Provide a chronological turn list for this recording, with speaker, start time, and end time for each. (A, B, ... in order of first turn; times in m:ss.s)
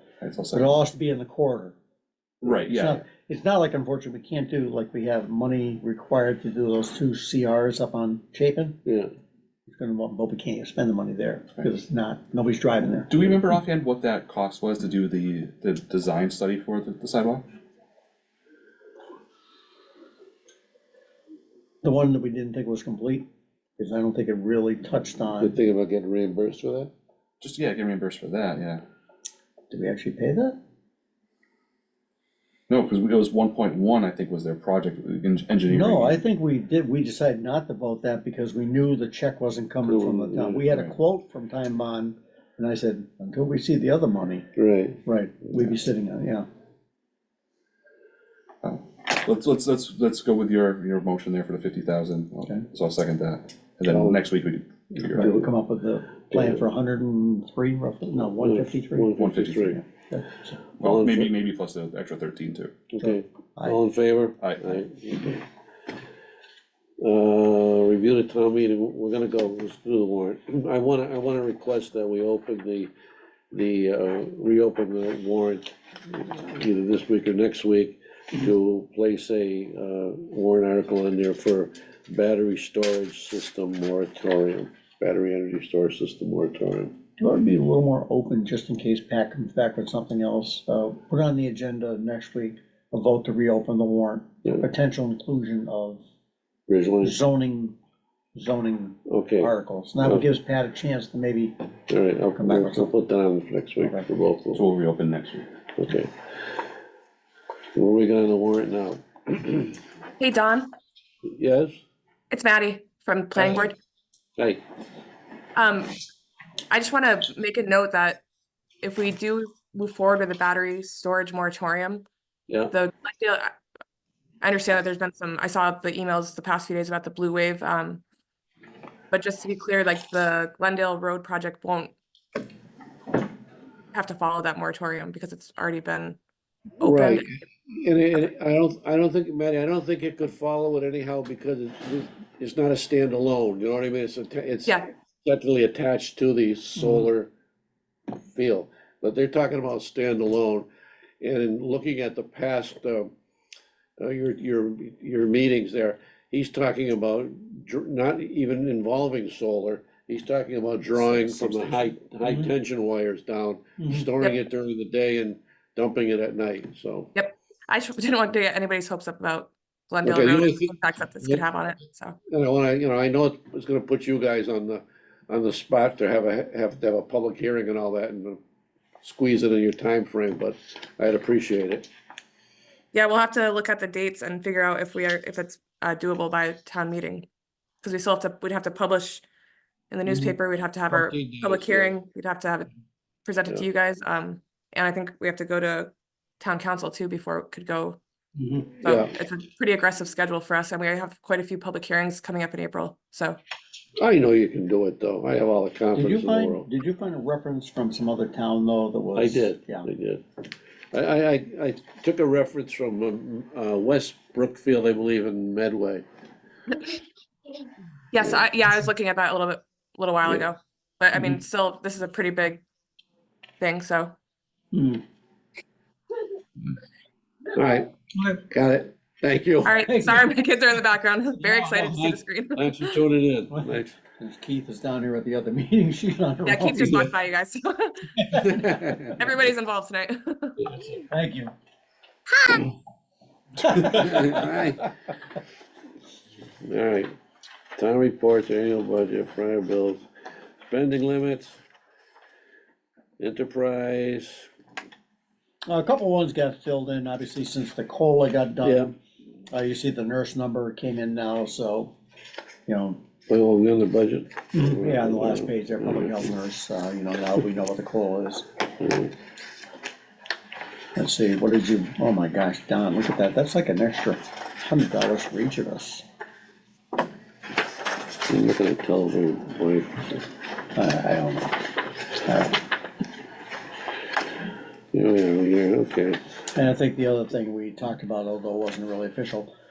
0:00.2-0:00.7 A
0:00.5-0:01.8 B
0:02.4-0:08.8 B
0:02.4-0:03.0 A
0:08.8-0:09.1 C
0:09.7-0:13.4 B
0:13.1-0:17.4 A
0:21.8-0:23.2 B
0:23.8-0:25.6 B
0:25.4-0:26.9 C
0:27.4-0:28.8 A
0:29.7-0:30.6 B
0:32.7-0:36.2 A
0:35.7-0:44.5 B
0:39.8-0:40.7 C
0:40.7-0:40.9 A
0:44.6-0:45.0 C
0:45.0-0:46.4 B
0:48.6-0:55.4 A
0:53.9-0:54.2 C
0:55.1-1:00.6 B
0:58.4-0:59.8 C
0:59.2-0:59.8 A
1:00.8-1:02.8 A
1:00.8-1:01.3 C
1:02.9-1:05.4 C
1:03.0-1:03.8 B
1:04.4-1:04.8 A
1:07.0-1:12.9 C
1:13.5-1:26.9 C
1:27.2-1:36.0 B
1:36.7-1:37.2 C
1:37.0-1:37.8 B
1:38.4-1:41.5 B
1:39.1-1:39.5 C
1:41.9-1:44.6 C
1:42.3-1:42.9 B
1:44.5-1:45.5 A
1:45.8-1:46.1 C
1:47.7-1:49.8 C
1:50.2-1:50.7 D
1:51.2-1:51.8 C
1:52.3-1:53.8 D
1:55.5-1:56.0 D
1:56.7-1:58.2 D
1:58.8-2:02.0 D
2:02.5-2:02.7 C
2:02.7-2:03.6 D
2:04.4-2:08.0 D
2:09.1-2:11.9 D
2:13.9-2:16.2 D
2:16.8-2:17.3 D
2:16.8-2:27.3 C
2:26.8-2:27.1 B
2:28.3-2:30.6 C
2:31.2-2:33.1 C
2:34.0-2:47.1 C
2:42.2-2:42.5 B
2:43.8-2:44.1 B
2:47.1-2:52.2 D
2:50.0-2:51.4 C
2:52.3-2:58.4 C
2:59.0-3:01.9 C
3:02.9-3:07.3 D
3:07.8-3:09.2 D
3:09.9-3:12.7 D
3:10.9-3:11.9 C
3:13.2-3:18.0 D
3:18.4-3:18.8 B
3:18.8-3:23.4 D
3:18.8-3:19.1 C
3:24.0-3:26.7 C
3:26.0-3:29.9 B
3:29.2-3:30.2 C
3:30.9-3:36.0 C
3:38.1-3:42.6 D
3:43.6-3:44.1 D
3:44.7-3:45.0 B
3:47.5-3:49.9 C
3:49.6-3:53.0 D
3:49.8-3:50.3 B
3:51.4-3:54.0 C
3:53.5-3:57.1 B
3:56.4-3:58.3 D
3:58.2-3:59.2 B
3:58.4-3:59.2 C
3:59.2-4:00.7 D
4:01.1-4:01.5 B
4:02.4-4:02.7 D
4:03.6-4:04.6 B
4:03.6-4:04.8 C
4:06.6-4:07.1 C
4:07.8-4:10.0 C
4:10.7-4:11.6 C
4:13.2-4:14.5 C
4:15.7-4:18.9 B
4:18.6-4:18.9 C
4:19.5-4:21.9 B
4:22.7-4:23.0 B
4:23.3-4:26.2 C
4:24.5-4:28.4 B
4:28.8-4:29.1 C
4:30.9-4:36.0 B
4:38.2-4:40.2 C
4:40.7-4:41.6 B
4:42.2-4:42.6 B
4:44.9-4:46.2 C
4:46.5-4:49.5 B